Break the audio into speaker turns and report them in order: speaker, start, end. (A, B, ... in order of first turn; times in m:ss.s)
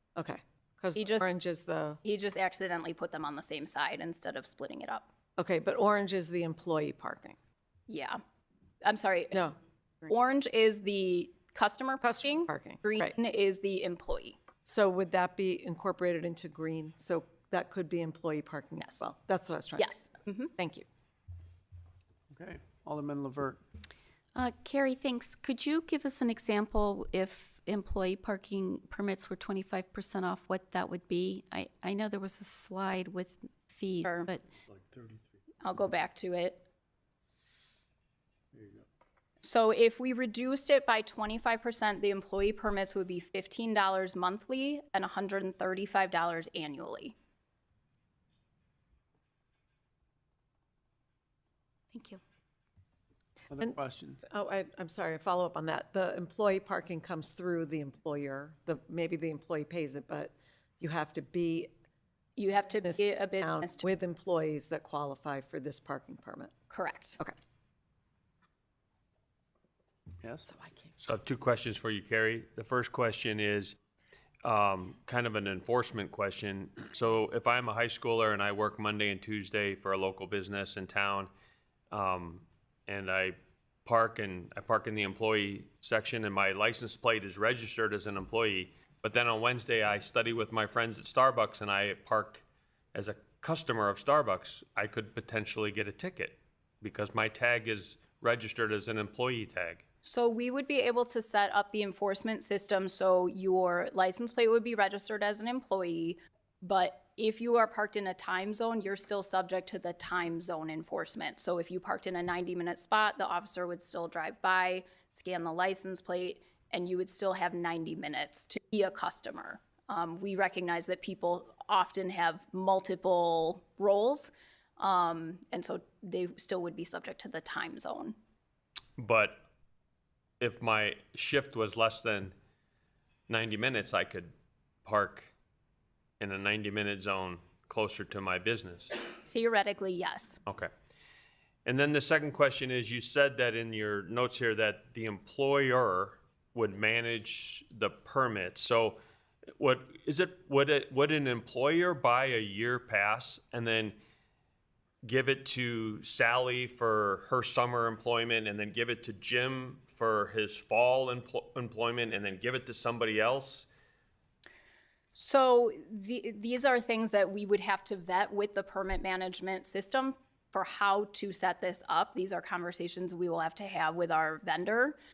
0:00.2-0:02.0 A
0:01.0-0:01.2 B
0:02.0-0:05.1 B
0:05.4-0:07.4 A
0:07.9-0:08.2 B
0:08.8-0:09.4 B
0:10.0-0:14.4 B
0:12.0-0:13.1 A
0:14.6-0:19.9 A
0:19.8-0:20.5 B
0:20.6-0:20.8 A
0:22.3-0:23.6 C
0:24.3-0:34.4 D
0:34.7-0:35.3 C
0:35.6-0:36.6 B
0:38.5-0:38.8 C
0:39.4-0:47.1 B
0:53.5-0:54.2 C
0:53.6-1:01.7 A
1:02.4-1:03.9 B
1:02.8-1:06.5 A
1:06.7-1:07.2 B
1:10.2-1:10.5 C
1:10.5-1:11.0 A
1:11.0-1:13.8 E
1:14.4-1:21.3 E
1:21.9-1:39.8 E
1:40.0-2:08.1 B
2:09.0-2:09.4 E
2:10.4-2:12.3 E
2:13.3-2:14.3 E
2:14.8-2:15.3 E
2:16.2-2:18.9 E
2:19.2-2:20.4 B
2:20.4-2:20.7 E
2:21.6-2:29.0 E
2:29.6-2:34.0 E
2:35.0-2:43.7 E
2:45.1-2:55.0 B